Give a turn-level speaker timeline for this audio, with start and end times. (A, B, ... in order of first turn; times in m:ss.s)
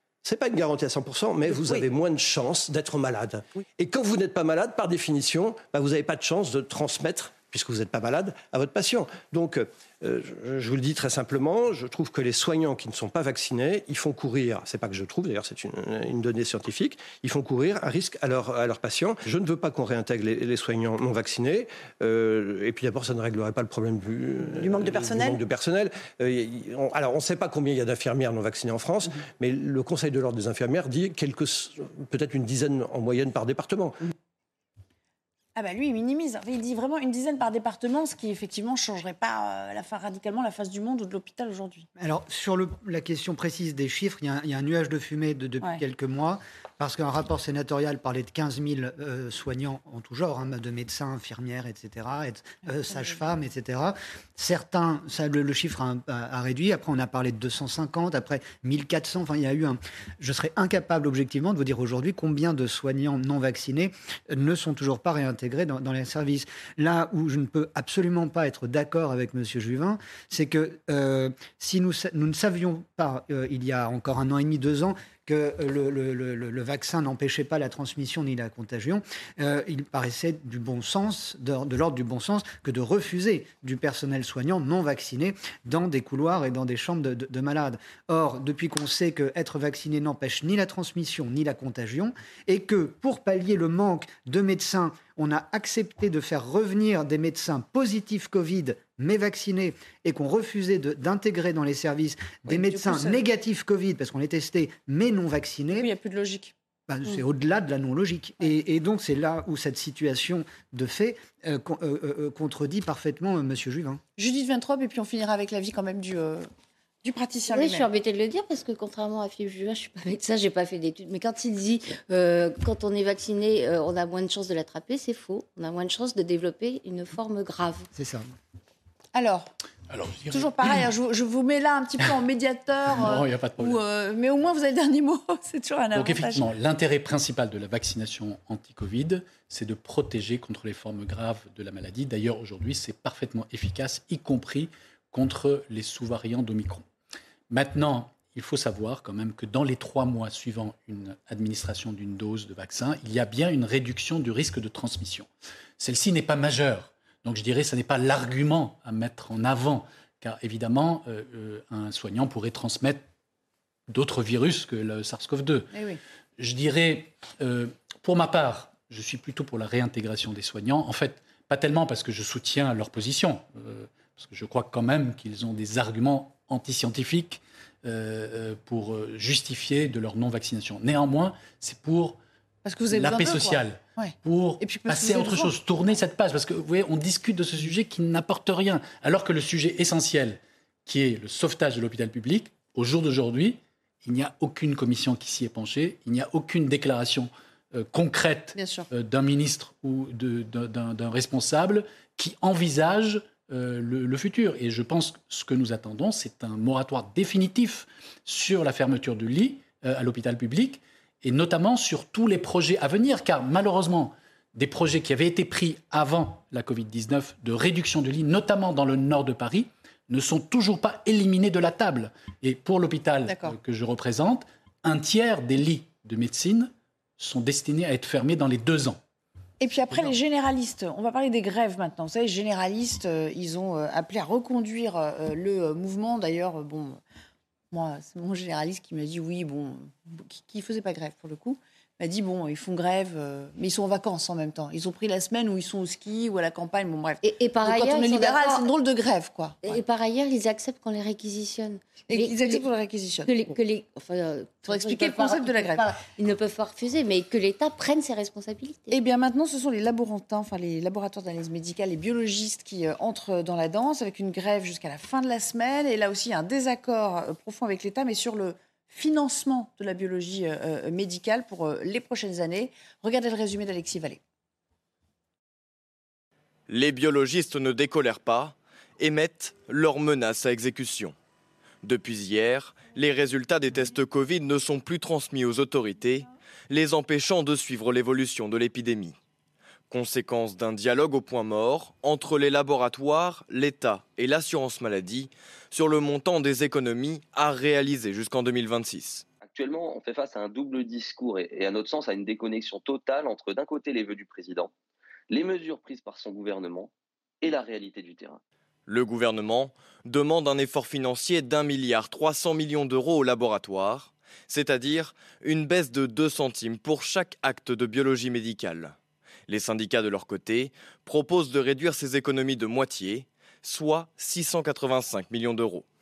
0:00.2-0:34.0 A
0:35.6-0:41.9 B
0:42.0-1:45.9 C
0:52.9-0:53.2 B
1:42.5-1:43.2 B
1:45.8-1:46.5 B
1:46.9-1:54.0 C
1:54.2-1:56.5 B
1:57.0-1:57.9 B
1:57.5-2:07.9 D
2:07.9-2:08.2 C
2:09.1-2:09.5 B
2:09.9-2:10.9 E
2:10.3-2:16.4 B
2:12.9-2:13.8 E
2:15.9-2:26.8 E
2:27.5-2:43.1 E
2:43.9-2:45.7 E
2:45.7-2:46.0 B
2:46.4-3:02.2 E
3:02.6-3:05.9 B
3:02.9-3:49.0 E
3:18.5-3:18.9 B
3:43.2-3:43.6 B
3:49.6-3:57.0 B
3:57.7-4:09.8 B
4:07.2-4:08.7 D
4:09.6-4:12.6 D
4:12.1-4:13.5 B
4:13.2-4:19.0 D
4:14.6-4:16.0 B
4:18.9-4:34.2 B
4:36.7-4:41.1 F
4:41.8-4:49.2 F
4:49.9-4:59.2 F
4:59.4-5:04.7 G
5:05.3-5:06.9 G
5:07.4-5:08.4 G
5:08.9-5:19.0 F
5:19.5-5:25.9 F